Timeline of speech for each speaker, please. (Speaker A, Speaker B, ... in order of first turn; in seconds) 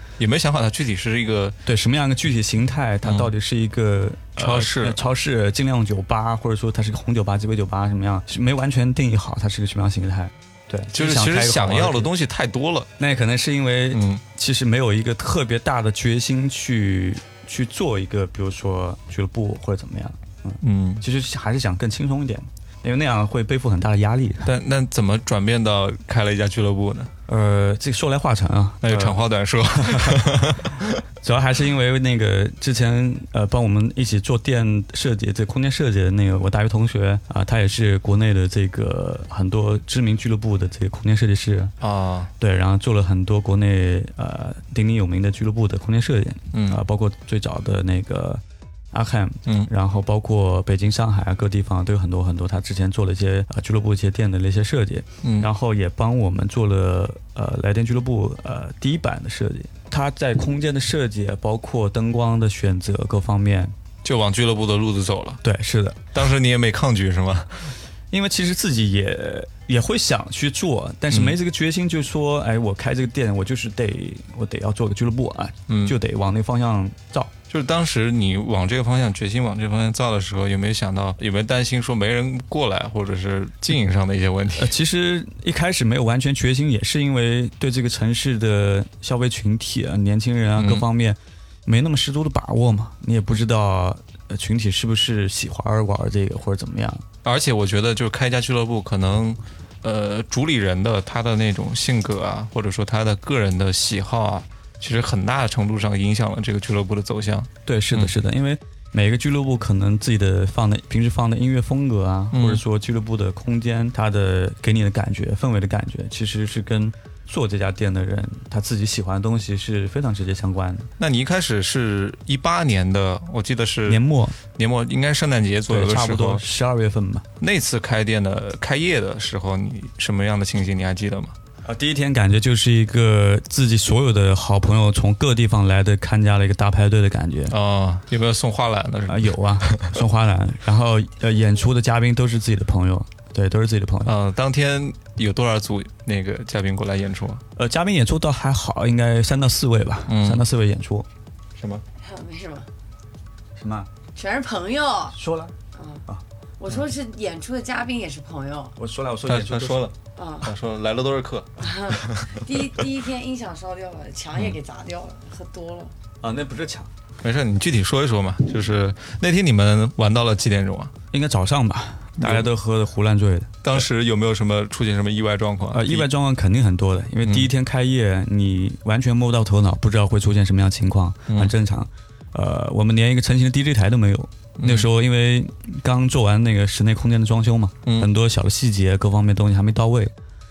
Speaker A: 0.2-1.6, 3.0-3.3, 4.4-5.0, 10.9-12.9, 13.9-14.2, 20.6-21.0, 24.4-27.1, 28.8-31.0, 41.8-42.3, 46.5-46.8, 55.2-55.5, 64.0-65.4, 66.1-67.8, 71.1-71.3, 75.7-75.9, 77.5-84.7, 90.6-90.8, 97.2-108.1, 112.3-112.6, 121.0-126.5, 127.4-131.3, 137.5-140.0, 144.0-147.4, 150.1-150.4, 151.6-151.8, 159.2-162.8, 167.2-170.9, 172.2-172.5, 173.6-176.1, 177.2-177.5, 184.6-184.9
Speaker B: 1.6-12.1, 13.0-24.5, 27.3-29.2, 29.7-30.2, 31.2-41.7, 42.4-48.4, 48.9-63.7, 65.4-66.1, 68.1-77.3, 84.5-97.0, 107.7-120.9, 123.9-124.4, 125.7-127.2, 131.7-137.5, 139.1-144.1, 147.6-151.1, 153.6-153.9, 155.1-155.5, 158.8-159.9, 166.2-166.9, 171.1-173.8, 175.7-190.1
Speaker C: 152.0-152.7, 154.1-155.2, 155.7-156.0, 156.6-158.7, 160.2-160.5, 161.6-165.9